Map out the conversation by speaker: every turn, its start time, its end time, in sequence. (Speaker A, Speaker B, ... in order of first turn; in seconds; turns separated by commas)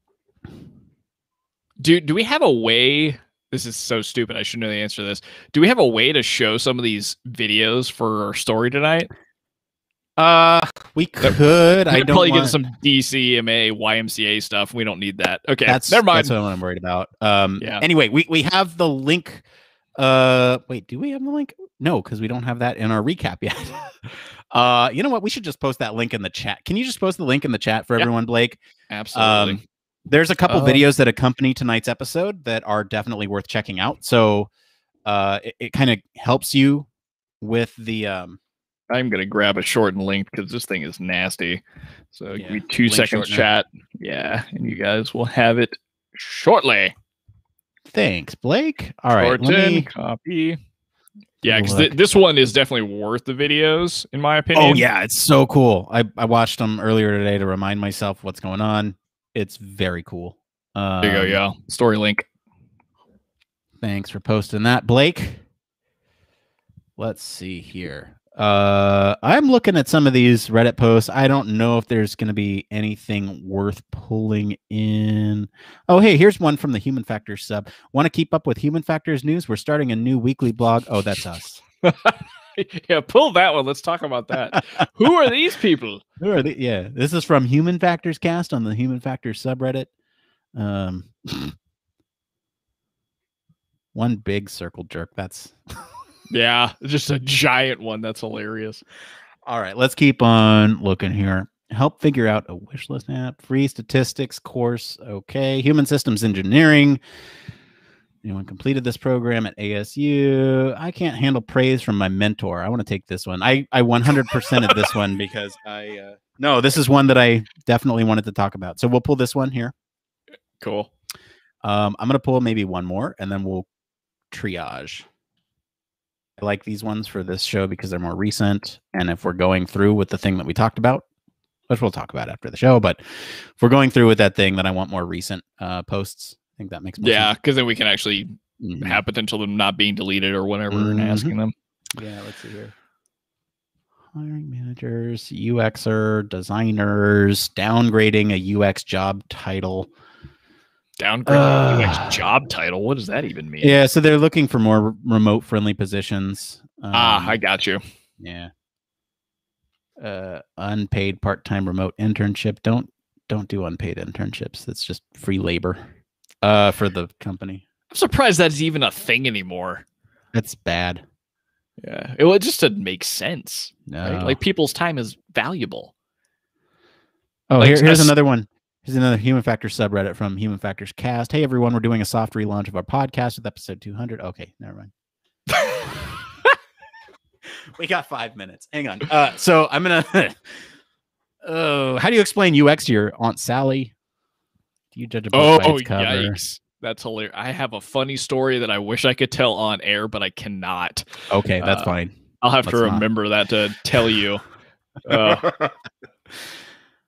Speaker A: 1.8-9.1, Speaker B: 10.2-12.6, Speaker A: 11.9-16.3, Speaker B: 15.7-19.4, Speaker B: 20.0-23.9, Speaker B: 24.5-28.6, Speaker A: 28.9-29.6, Speaker B: 29.1-34.5, Speaker A: 30.5-30.8, Speaker B: 35.0-36.9, Speaker B: 37.4-38.4, Speaker A: 38.9-46.9, Speaker B: 42.3-43.5, Speaker B: 47.9-49.9, Speaker A: 49.2-50.6, Speaker A: 51.4-54.9, Speaker B: 51.5-51.9, Speaker B: 54.5-61.4, Speaker A: 61.0-62.3, Speaker B: 63.8-65.4, Speaker B: 67.0-81.6, Speaker A: 81.8-86.0, Speaker B: 86.2-89.9, Speaker B: 90.5-91.5, Speaker B: 93.9-95.5, Speaker A: 96.3-98.8, Speaker B: 99.5-107.0, Speaker B: 108.2-119.7, Speaker A: 120.6-120.9, Speaker B: 121.6-123.7, Speaker B: 124.3-125.0, Speaker B: 126.4-131.0, Speaker B: 131.7-137.3, Speaker A: 137.0-141.5, Speaker B: 138.6-139.0, Speaker B: 140.7-141.3, Speaker B: 142.0-142.7, Speaker B: 144.1-149.9, Speaker A: 151.0-153.8, Speaker B: 151.2-152.2, Speaker B: 153.6-157.4, Speaker A: 156.9-157.8, Speaker B: 158.2-158.5, Speaker B: 160.0-165.8, Speaker B: 166.4-167.6, Speaker A: 167.9-169.8, Speaker B: 170.3-171.0, Speaker A: 171.8-175.9, Speaker B: 173.9-174.4, Speaker B: 177.5-184.9, Speaker A: 177.6-178.1, Speaker A: 185.5-186.0, Speaker B: 187.8-190.4, Speaker B: 191.4-193.9, Speaker B: 194.9-196.4, Speaker A: 195.3-201.1, Speaker B: 201.3-202.1, Speaker A: 201.6-201.9, Speaker A: 202.4-204.4, Speaker B: 202.6-203.0, Speaker A: 205.1-205.4, Speaker B: 205.2-205.7